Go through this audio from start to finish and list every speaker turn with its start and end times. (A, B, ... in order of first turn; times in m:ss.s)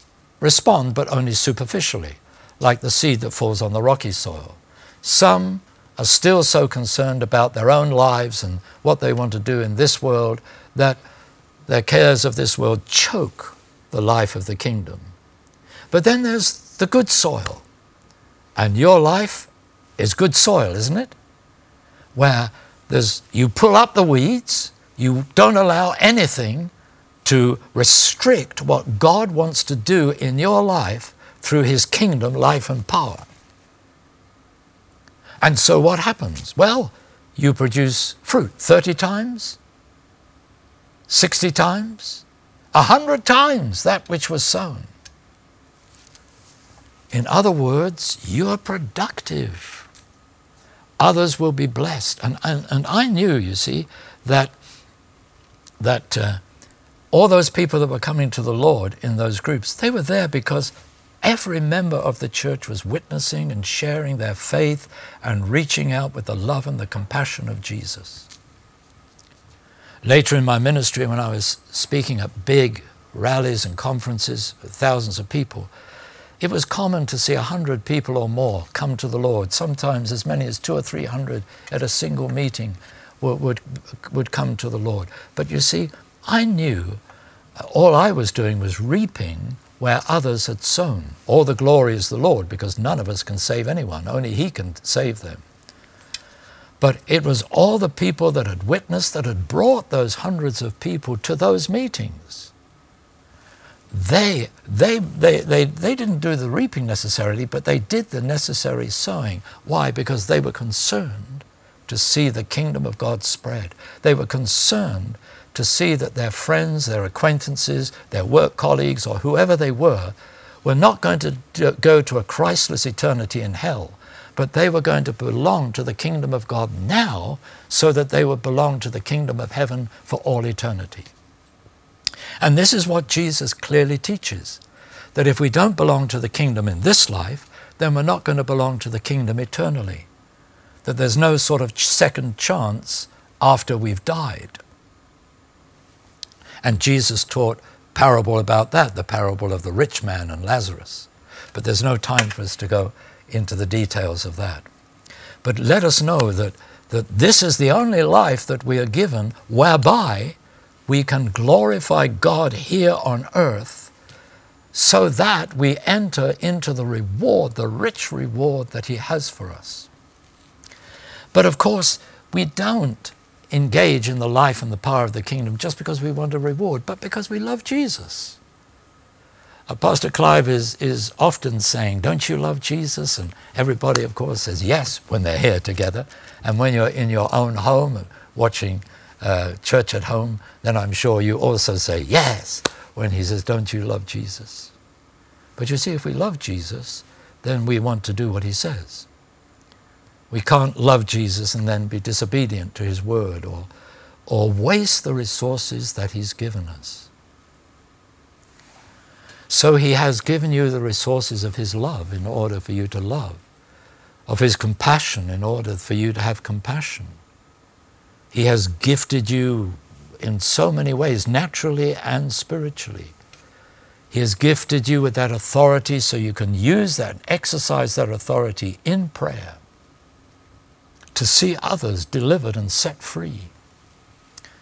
0:00.4-0:11.0 A
0:11.7-0:15.1 A
0:15.9-0:17.6 A
0:18.6-0:21.1 A
0:22.1-0:26.7 A
0:27.2-0:33.3 A
0:35.4-0:39.6 A
0:41.1-0:44.9 A
0:47.1-0:49.9 A
0:51.0-0:54.5 A
0:55.8-0:56.4 A
0:57.1-1:08.3 A
1:10.0-1:15.7 A
1:16.4-1:27.0 A
1:27.6-1:35.4 A
1:36.8-1:42.5 A
1:43.9-2:11.1 A
2:12.4-2:14.6 A
2:15.1-2:20.1 A
2:20.8-2:24.6 A
2:26.6-2:34.7 A
2:35.4-2:43.9 A
2:44.7-2:49.9 A
2:51.3-2:58.4 A
2:59.7-3:14.7 A
3:15.6-3:19.1 A
3:20.3-3:23.7 A
3:24.3-3:27.1 A
3:29.5-3:33.4 A
3:34.3-3:37.2 A
3:38.3-3:43.1 A
3:44.1-3:49.6 A
3:51.1-3:53.5 A